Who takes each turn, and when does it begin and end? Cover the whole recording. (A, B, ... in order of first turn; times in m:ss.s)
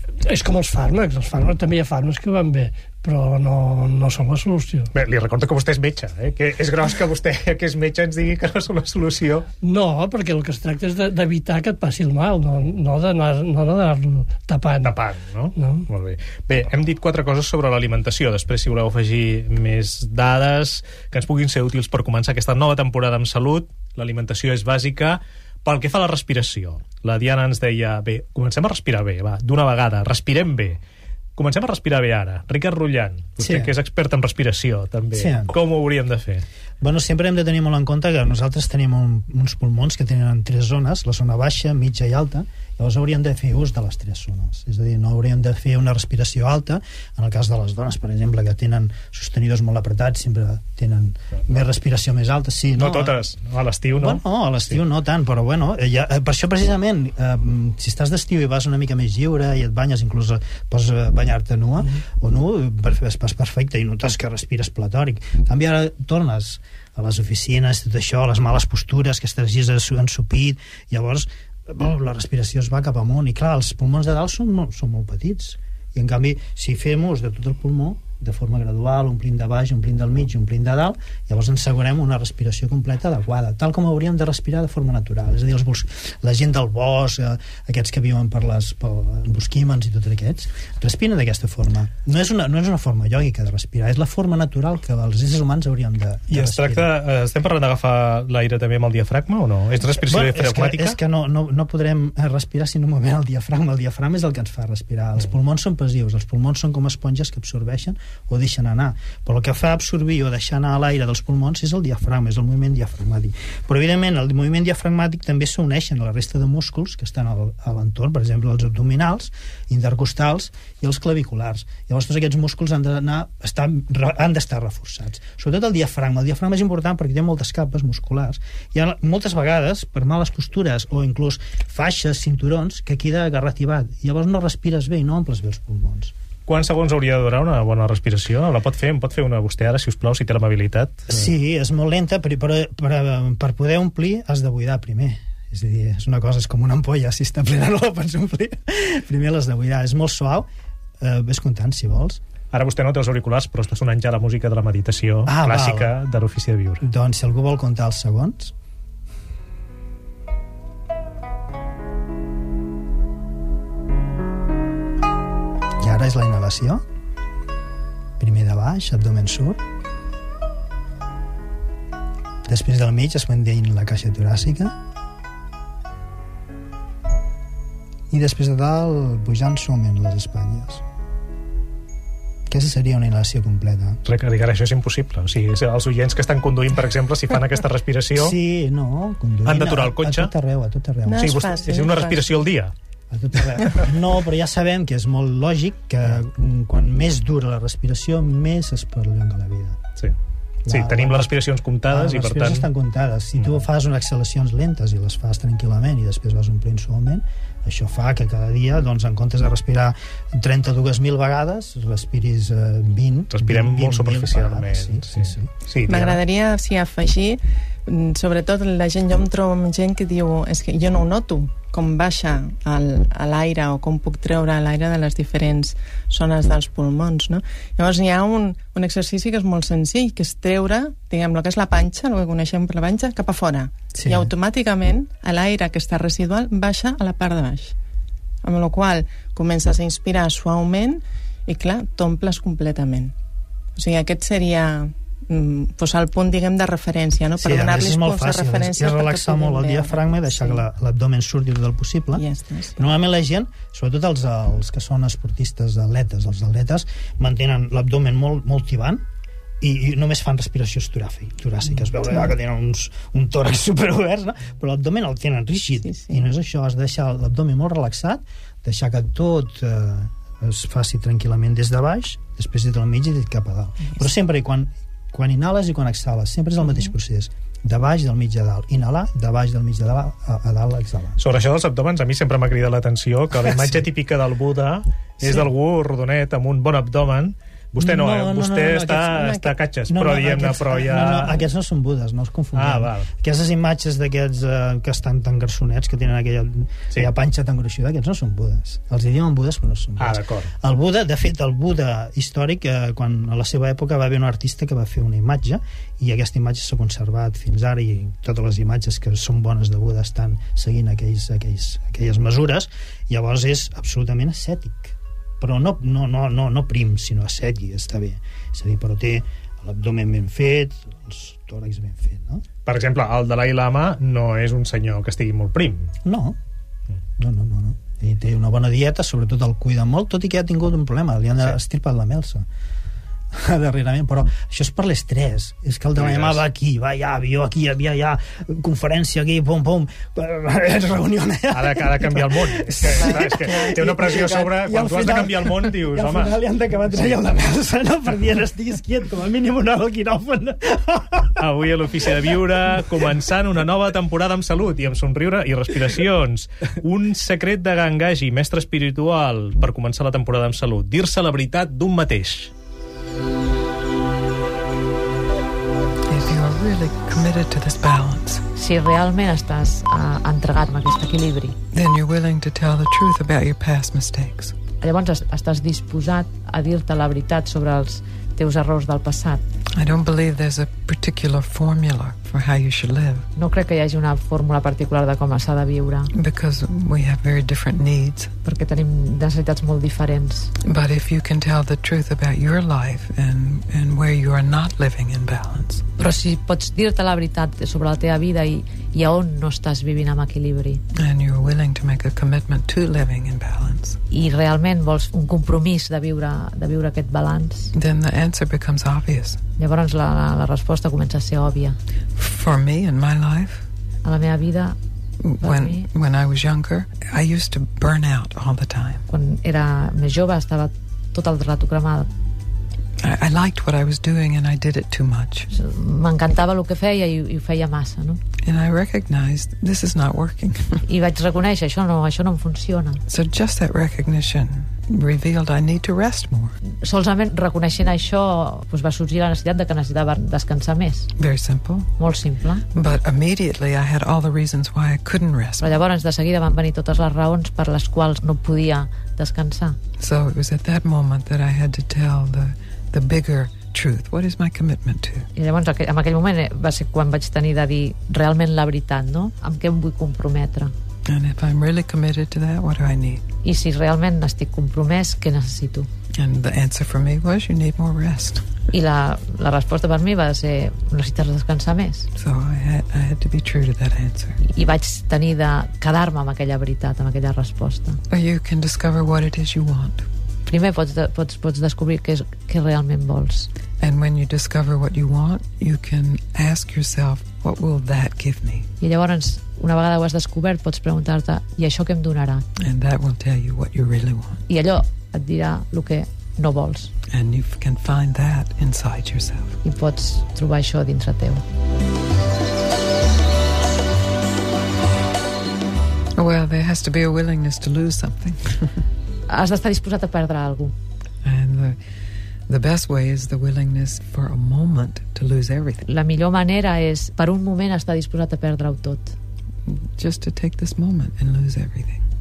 0:00.2-0:04.9 A
0:04.9-0:09.5 B
0:09.6-0:14.9 A
0:14.8-0:30.8 B
0:15.6-0:15.9 A
0:31.4-0:36.4 B
0:33.4-0:33.7 C
0:35.1-0:35.6 C
0:36.8-0:53.2 C
0:52.8-0:54.8 B
0:54.0-1:36.9 C
1:36.3-1:41.0 B
1:40.0-2:16.1 C
2:16.5-2:21.3 B
2:21.1-2:30.5 C
2:31.0-2:32.2 C
2:32.5-2:36.8 B
2:35.3-2:36.0 C
2:36.8-2:38.5 C
2:45.8-2:46.8 C
2:48.2-2:49.6 C
2:52.4-2:54.8 C
2:58.1-3:00.8 C
3:02.5-3:04.0 C
3:04.0-3:08.4 B
3:08.2-3:11.5 C
3:09.5-3:10.3 B
3:11.0-3:12.4 D
3:11.2-3:12.7 B
3:13.1-3:19.8 C
3:20.7-3:21.4 C
3:20.7-3:22.7 B
3:21.9-3:35.5 C
3:33.3-3:36.2 B
3:35.9-3:57.7 D
3:53.9-3:54.3 C
3:58.4-4:03.1 D
4:03.8-4:10.6 D
4:07.4-4:12.2 C
4:12.2-4:12.9 D
4:12.8-4:19.0 C
4:19.6-4:41.2 C
4:25.7-4:26.2 D
4:41.2-4:51.4 B
4:43.3-4:43.8 C
4:45.2-4:45.5 C
4:47.8-5:22.4 C
4:52.6-4:53.1 B
5:00.0-5:00.5 B
5:22.7-5:25.9 B
5:26.0-5:26.4 C
5:27.2-5:32.5 C
5:33.3-5:51.4 C
5:36.0-5:36.4 B
5:41.5-5:46.4 B
5:42.9-5:44.3 D
5:51.4-6:02.5 B
6:06.1-6:08.4 E
6:08.6-6:11.6 F
6:11.7-6:14.6 E
6:14.8-6:19.4 F
6:19.7-6:23.3 E
6:23.4-6:26.1 F
6:26.1-6:28.4 E
6:28.4-6:30.5 F
6:30.6-6:35.9 E
6:36.0-6:40.8 F
6:40.9-6:44.0 E
6:44.1-6:47.7 F
6:47.7-6:49.4 E
6:49.6-6:51.8 F
6:52.2-6:53.7 E
6:54.0-6:54.8 F
6:55.2-6:59.1 E
6:55.4-6:55.9 F
6:59.1-7:02.1 F
7:03.0-7:05.5 E
7:05.5-7:08.2 F
7:08.4-7:10.8 E
7:10.9-7:13.0 F
7:13.1-7:16.6 E
7:16.7-7:21.1 F
7:21.2-7:22.0 E
7:22.0-7:22.6 F
7:22.7-7:25.8 E
7:25.6-7:29.8 F
7:30.0-7:35.3 E
7:35.4-7:40.7 F
7:41.1-7:43.3 E
7:43.4-7:45.9 F
7:46.1-7:48.6 E
7:48.7-7:52.1 F
7:52.2-7:54.4 E
7:54.4-7:58.0 F
7:58.1-8:00.1 E
8:00.5-8:03.5 F
8:03.8-8:08.7 E
8:08.8-8:12.4 F
8:12.6-8:14.4 E
8:14.5-8:16.9 F
8:17.1-8:19.6 E
8:19.6-8:21.4 F
8:26.2-8:28.8 E
8:29.3-8:30.7 F
8:31.2-8:35.8 E
8:35.9-8:39.2 F
8:39.6-8:42.0 E